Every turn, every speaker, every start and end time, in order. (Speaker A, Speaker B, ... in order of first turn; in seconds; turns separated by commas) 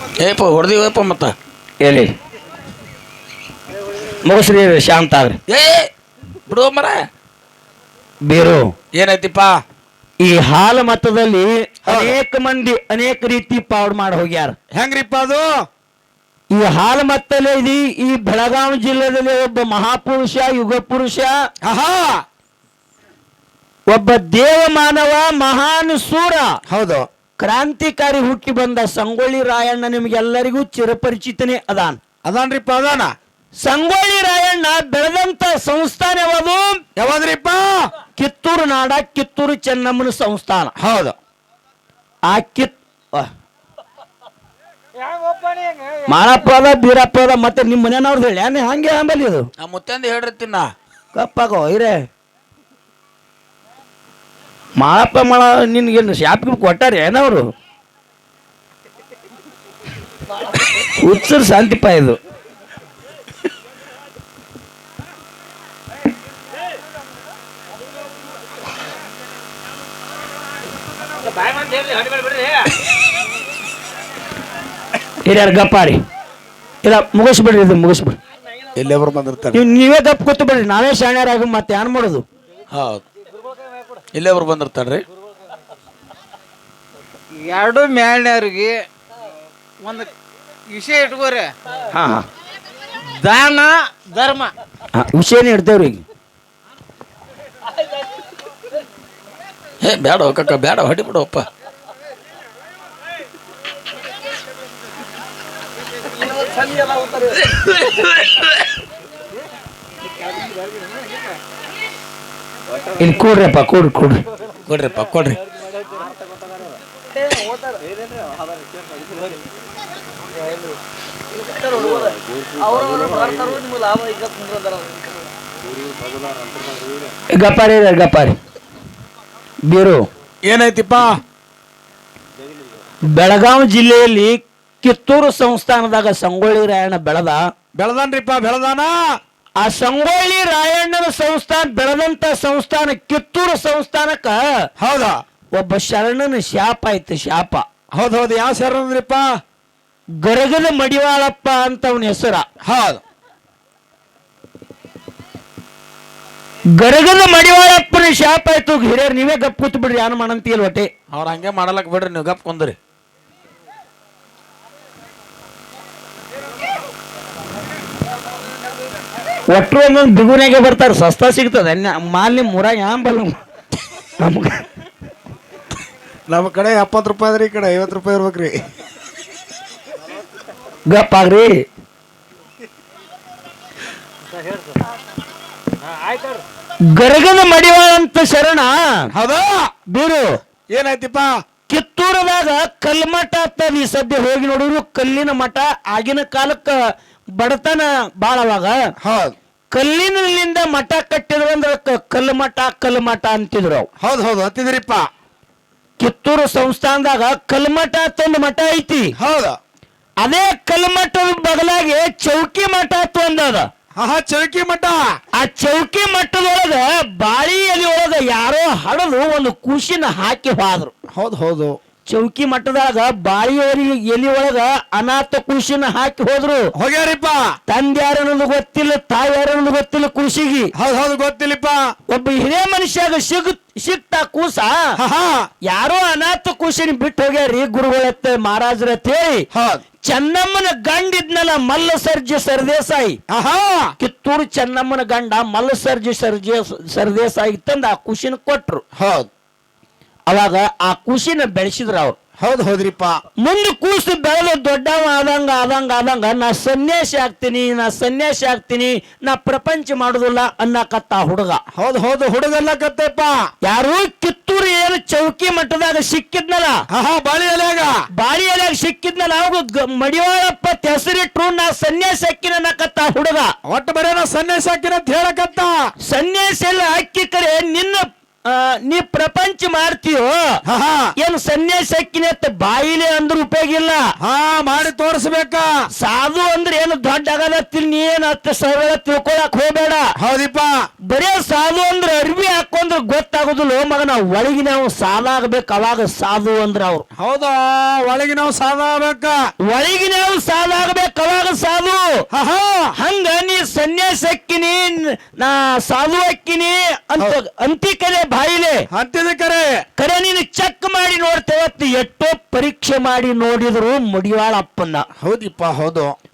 Speaker A: 0.1-1.3, Speaker B: 1.8-2.1, Speaker B: 4.2-5.4, Speaker A: 5.5-5.9, Speaker A: 6.5-7.0, Speaker B: 8.3-8.7, Speaker A: 9.0-9.5, Speaker B: 10.2-14.5, Speaker C: 11.9-12.2, Speaker C: 14.7-15.5, Speaker B: 16.5-21.3, Speaker C: 21.6-22.2, Speaker B: 23.9-26.5, Speaker C: 26.7-27.1, Speaker B: 27.4-32.0, Speaker C: 32.2-33.1, Speaker B: 33.6-36.8, Speaker C: 37.0-37.9, Speaker B: 38.2-40.7, Speaker C: 40.8-41.1, Speaker B: 42.3-43.3, Speaker D: 45.0-46.0, Speaker B: 46.1-49.4, Speaker A: 49.6-50.7, Speaker B: 51.1-52.0, Speaker B: 54.8-57.4, Speaker B: 60.8-62.2, Speaker D: 71.2-72.6, Speaker B: 75.2-76.0, Speaker B: 76.8-78.1, Speaker C: 78.8-79.6, Speaker B: 79.5-82.2, Speaker A: 82.7-83.0, Speaker A: 84.1-85.0, Speaker D: 87.4-88.8, Speaker D: 89.8-90.1, Speaker D: 90.7-91.5, Speaker B: 91.9-92.2, Speaker D: 93.2-94.5, Speaker B: 94.9-96.0, Speaker A: 99.8-101.5, Speaker D: 106.2-107.4, Speaker A: 107.5-108.5, Speaker D: 110.2-110.5, Speaker B: 113.0-114.2, Speaker A: 114.7-115.4, Speaker D: 117.1-117.8, Speaker D: 121.3-125.1, Speaker B: 127.3-128.3, Speaker B: 129.7-130.0, Speaker C: 130.4-131.2, Speaker B: 133.1-137.4, Speaker C: 137.7-138.9, Speaker B: 139.6-144.3, Speaker C: 144.8-145.2, Speaker B: 145.5-147.6, Speaker C: 147.9-149.3, Speaker B: 150.2-152.4, Speaker C: 152.6-153.0, Speaker B: 156.8-160.9, Speaker A: 161.1-162.7, Speaker B: 169.5-173.3, Speaker B: 174.2-174.6, Speaker C: 176.3-178.6, Speaker B: 180.9-181.6, Speaker B: 186.9-189.1, Speaker C: 189.1-189.7, Speaker B: 189.9-190.3, Speaker C: 190.7-191.3, Speaker B: 191.7-196.8, Speaker B: 197.4-198.8, Speaker C: 199.0-199.3, Speaker B: 199.7-203.9, Speaker C: 204.0-205.1, Speaker B: 206.0-209.1, Speaker C: 209.2-209.6, Speaker B: 210.2-213.7, Speaker C: 213.9-215.0, Speaker B: 215.3-220.9, Speaker C: 221.1-221.8, Speaker B: 222.1-226.7, Speaker C: 226.8-227.5, Speaker B: 227.7-230.7, Speaker C: 230.8-231.8, Speaker B: 232.1-234.7, Speaker C: 235.0-235.5, Speaker B: 235.7-239.4, Speaker C: 239.5-239.8, Speaker B: 240.1-243.2, Speaker C: 243.3-243.9, Speaker B: 244.0-248.8, Speaker C: 248.9-249.3, Speaker B: 250.3-252.2, Speaker C: 252.4-253.2, Speaker B: 253.4-261.6, Speaker C: 261.7-263.4, Speaker B: 263.6-266.8, Speaker C: 266.9-267.9, Speaker B: 268.2-273.5, Speaker C: 273.7-275.7, Speaker B: 276.1-280.4, Speaker C: 280.7-281.1, Speaker B: 281.2-284.0, Speaker C: 284.2-285.7, Speaker B: 286.0-290.1, Speaker C: 290.2-290.7, Speaker B: 291.1-297.0, Speaker C: 297.2-299.4, Speaker B: 299.7-302.2, Speaker C: 302.3-302.9, Speaker B: 302.9-308.9, Speaker C: 308.9-309.7, Speaker B: 310.0-315.0, Speaker C: 315.2-316.1